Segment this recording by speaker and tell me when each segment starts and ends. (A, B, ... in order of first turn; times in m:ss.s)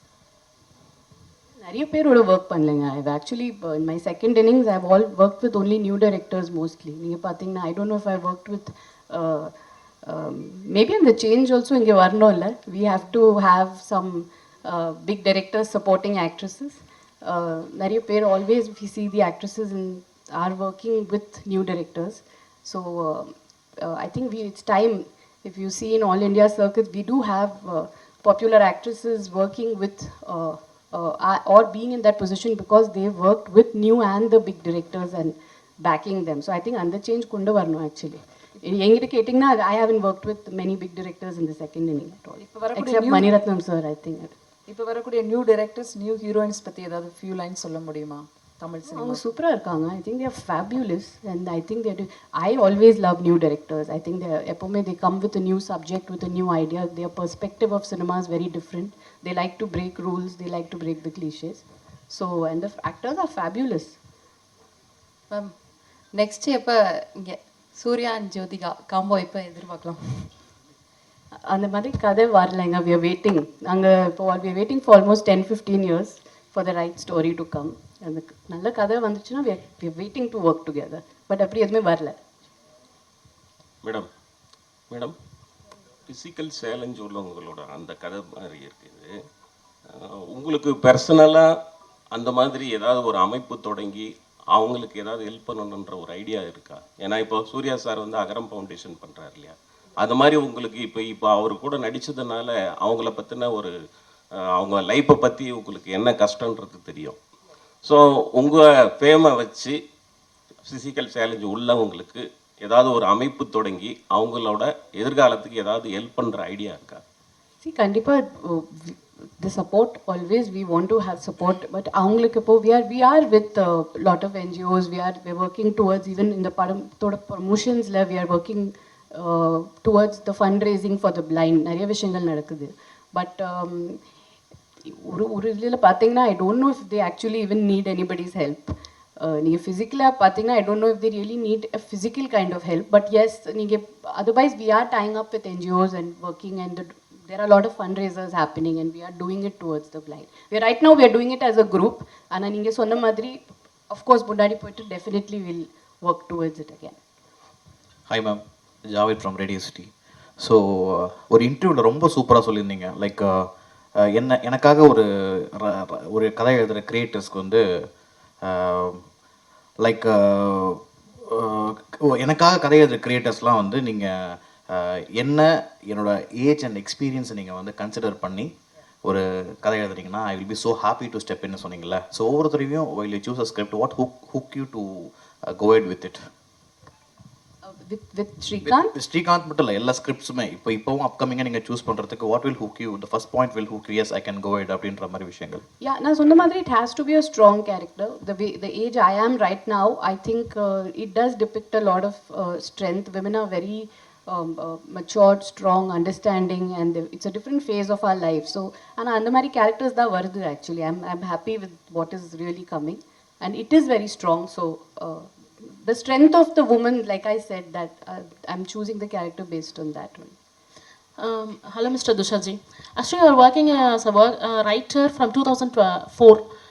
0:01.6-0:09.5 A
0:10.0-0:44.3 A
0:42.4-0:43.2 B
0:44.7-0:49.2 B
0:48.8-1:04.0 A
1:06.1-1:10.3 C
1:11.4-1:22.2 A
1:23.8-1:24.1 D
1:26.1-1:29.2 D
1:29.9-1:31.6 D
1:32.1-1:43.7 D
1:44.6-1:47.2 D
1:47.8-1:49.8 D
1:50.7-1:57.0 D
1:57.6-2:14.0 A
2:14.8-2:37.0 A
2:38.1-2:47.8 E
2:48.4-2:49.0 E
2:49.8-2:58.5 E
2:59.0-3:06.2 E
3:07.6-3:08.9 A
3:08.7-3:15.6 E
3:15.8-3:40.4 A
3:41.2-3:46.4 F